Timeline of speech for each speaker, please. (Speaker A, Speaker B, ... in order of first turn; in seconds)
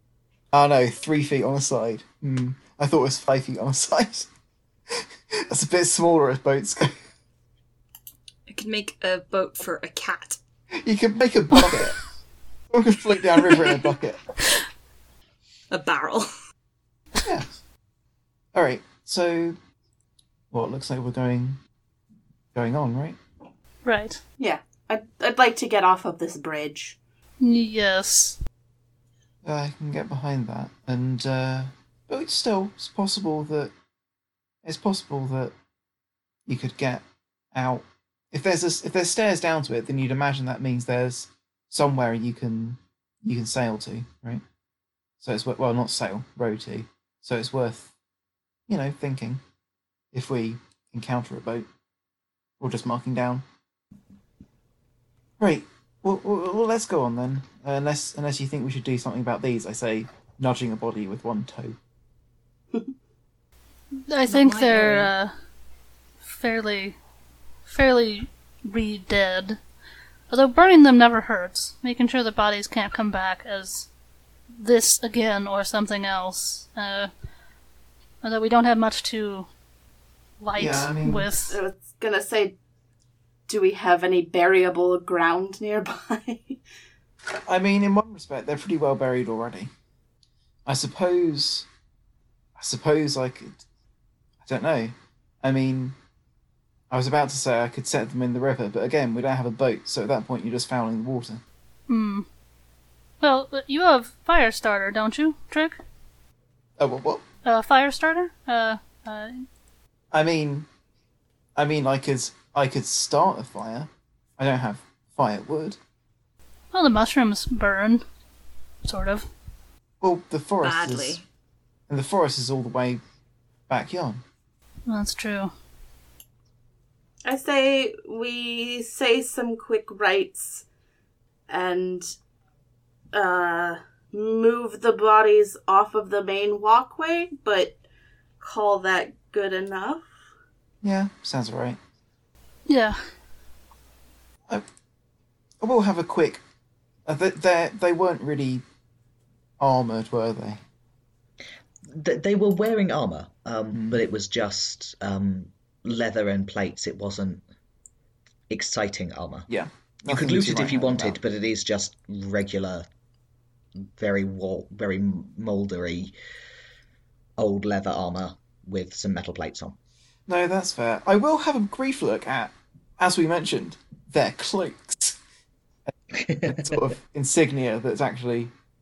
Speaker A: 0.5-4.3, 4.9-7.0, 10.8-12.0, 12.7-14.2, 17.2-17.6, 18.5-19.6, 20.5-21.6, 22.5-23.2, 29.4-33.7, 34.6-35.5, 36.5-44.4, 45.2-47.9, 48.7-49.4, 50.1-51.7, 52.6-53.4, 55.4-61.8, 80.6-81.3, 87.5-89.7, 90.7-91.7, 92.6-93.6, 94.4-96.0, 96.9-101.4, 106.8-107.2, 110.1-110.7, 111.6-115.8, 120.0-121.2, 121.9-123.0, 123.7-124.2, 140.8-141.8, 145.6-146.4, 147.1-148.6, 149.6-150.6, 153.7-154.0, 159.5-161.2, 170.3-175.2, 176.4-178.5
Speaker B: 8.5-10.4, 15.7-16.3, 64.3-65.1, 120.6-121.2
Speaker C: 23.8-24.2, 27.4-28.4, 63.9-65.3, 66.2-67.0, 67.7-69.6, 70.3-73.9, 74.5-77.1, 78.2-79.5, 80.4-81.6, 101.9-102.3, 103.2-105.8, 107.4-109.5, 116.7-118.0, 118.8-119.3, 124.9-125.5, 142.7-143.0
Speaker D: 24.4-27.0, 81.5-82.5, 83.5-86.6, 127.2-130.7, 131.5-132.1, 133.1-137.8, 138.4-140.1
Speaker E: 151.9-157.4, 158.5-159.5, 160.1-162.9, 163.8-166.1, 167.4-169.8, 176.1-176.7